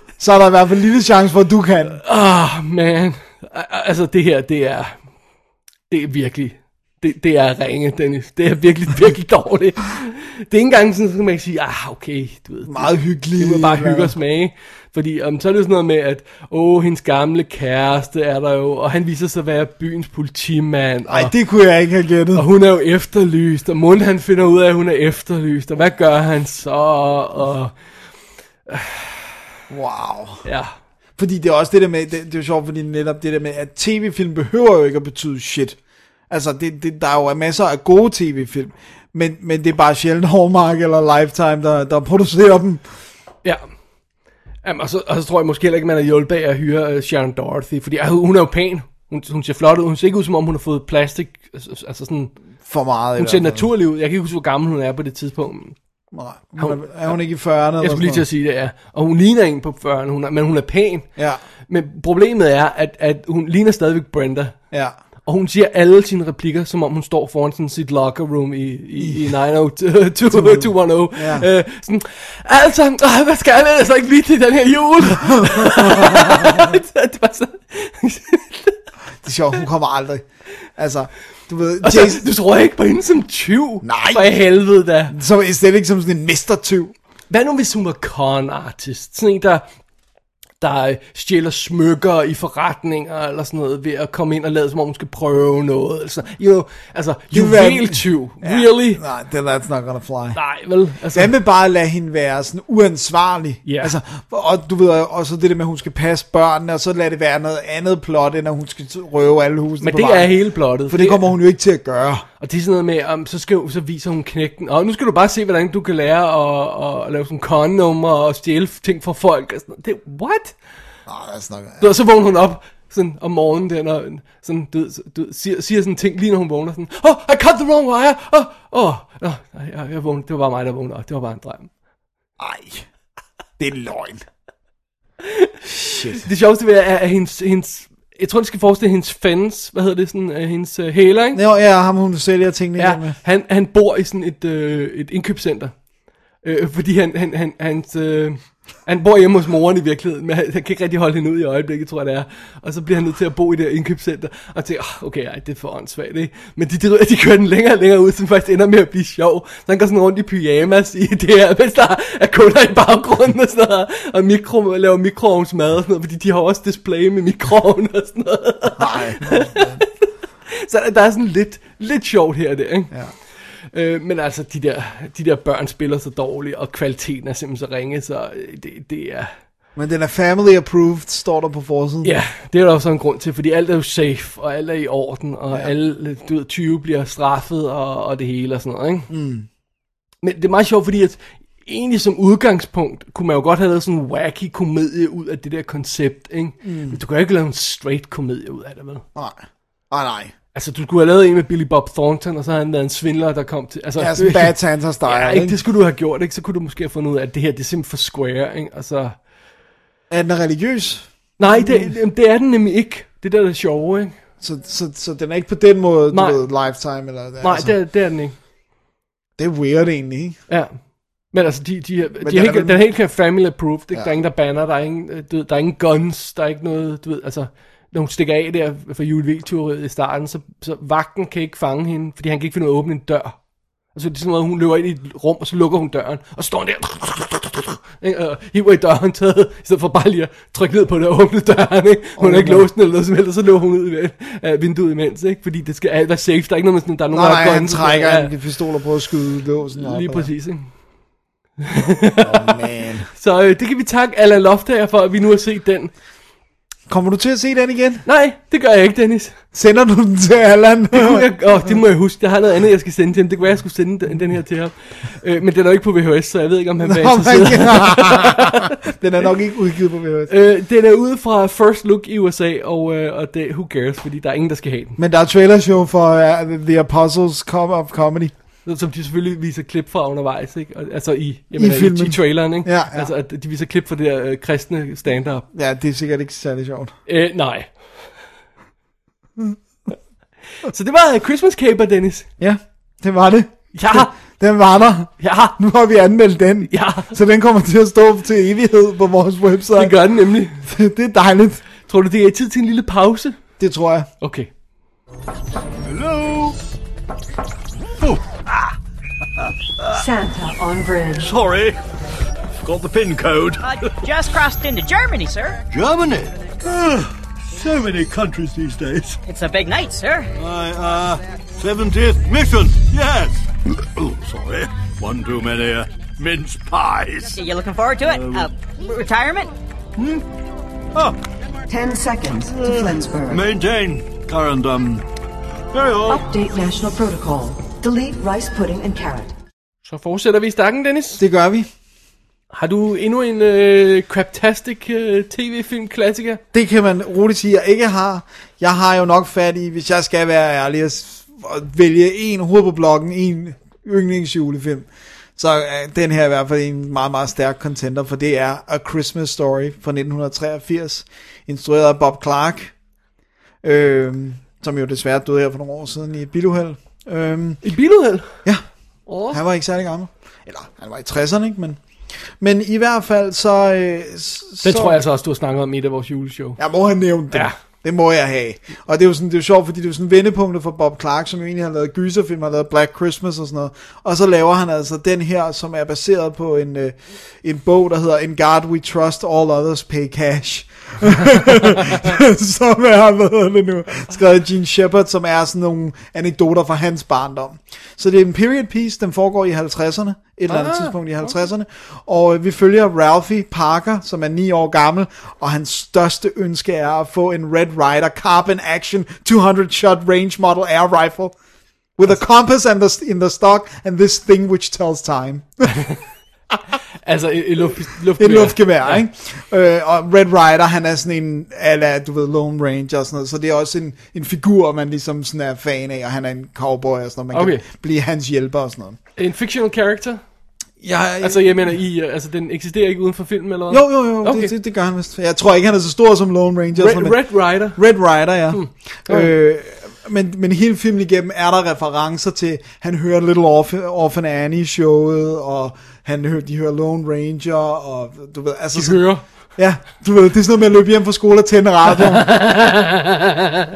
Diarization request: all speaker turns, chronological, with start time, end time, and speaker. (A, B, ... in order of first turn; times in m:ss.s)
0:00.2-0:02.0 A
0:02.0-0:05.0 B
0:05.9-0:21.3 B
0:12.6-0:14.1 A
0:21.1-0:22.4 A
0:22.3-0:27.8 B
0:28.7-0:29.3 B
0:29.7-0:30.4 A
0:30.4-0:30.7 B
0:31.2-0:35.8 A
0:36.3-0:43.0 A
0:44.6-0:52.3 B
0:52.6-0:53.7 A
0:53.2-0:55.8 B
0:56.1-0:58.2 A
0:56.6-0:57.1 B
0:57.8-1:01.1 B
1:01.7-1:04.6 B
1:05.2-1:18.8 B
1:09.0-1:09.2 A
1:10.3-1:11.5 A
1:15.2-1:16.7 A
1:19.2-1:22.3 A
1:21.8-1:25.2 B
1:23.8-1:24.3 A
1:25.1-1:26.9 A
1:27.3-1:29.6 B
1:30.6-1:39.0 B
1:37.3-1:40.4 A
1:40.3-1:41.3 B
1:41.1-1:52.2 A
1:43.6-1:44.0 B
1:49.8-1:51.2 B
1:52.4-2:00.6 B
2:01.1-2:01.9 A
2:01.8-2:11.7 B
2:12.4-2:12.9 A
2:13.6-2:14.2 A
2:15.4-2:21.4 B
2:15.7-2:16.2 A
2:21.3-2:23.2 A
2:22.8-2:25.8 B
2:26.4-2:59.3 B
2:48.8-2:49.8 A
2:59.8-3:02.1 A
3:02.0-3:09.1 B
3:09.1-3:09.5 A
3:10.2-3:19.0 B
3:16.6-3:17.0 A
3:19.1-3:20.3 A
3:20.5-3:29.2 B
3:24.0-3:25.6 A
3:30.1-3:31.9 A
3:31.4-3:34.1 B
3:34.4-3:37.7 A
3:36.1-3:36.4 B
3:37.4-3:38.4 B
3:39.4-3:40.4 A
3:40.5-3:40.7 B
3:41.3-3:53.4 B
3:42.2-3:42.8 A
3:53.9-4:08.3 B
4:02.2-4:02.7 A
4:07.1-4:10.3 A
4:09.8-4:10.7 B
4:11.6-4:15.9 B
4:12.2-4:13.1 A
4:16.9-4:18.0 A
4:18.0-4:19.4 B
4:19.5-4:21.8 A
4:20.9-4:28.7 B
4:26.8-4:30.3 A
4:30.3-4:35.0 B
4:35.0-4:38.3 A
4:38.6-4:45.4 B
4:41.6-4:43.1 A
4:45.5-4:46.9 A
4:47.0-4:48.1 B
4:50.6-4:52.3 B
4:52.4-5:00.0 A
4:53.7-4:54.1 B
4:55.2-4:55.6 B
4:56.7-4:57.1 B
4:59.7-5:00.7 B
5:00.6-5:01.6 A
5:01.9-5:03.4 B
5:03.6-5:04.1 A
5:04.2-5:04.5 B
5:05.8-5:06.6 C
5:08.0-5:08.7 C
5:09.9-5:11.3 D
5:11.2-5:11.8 C
5:12.6-5:13.9 C
5:13.6-5:15.6 E
5:15.7-5:19.2 C
5:19.2-5:20.3 E
5:20.4-5:27.4 C
5:27.3-5:29.5 E
5:28.0-5:28.5 C
5:30.0-5:30.2 C
5:31.7-5:33.4 D
5:32.2-5:35.0 C
5:35.7-5:36.2 C
5:36.1-5:39.3 D
5:39.8-5:41.2 B
5:41.2-5:41.7 A
5:42.5-5:46.4 B
5:46.5-6:02.7 A
6:03.6-6:07.6 A
6:07.6-6:08.4 B
6:09.0-6:09.4 B
6:09.2-6:15.0 A
6:14.6-6:16.6 B
6:16.6-6:51.4 A
6:17.3-6:17.6 B
6:40.5-6:41.3 B
6:52.0-6:55.8 A
6:57.0-6:59.0 B
6:58.2-7:09.0 A
7:07.3-7:07.6 B
7:09.2-7:10.2 B
7:10.8-7:11.7 A
7:11.2-7:14.5 B
7:13.7-7:32.4 A
7:16.7-7:19.3 B
7:28.7-7:29.2 B
7:32.2-7:33.2 B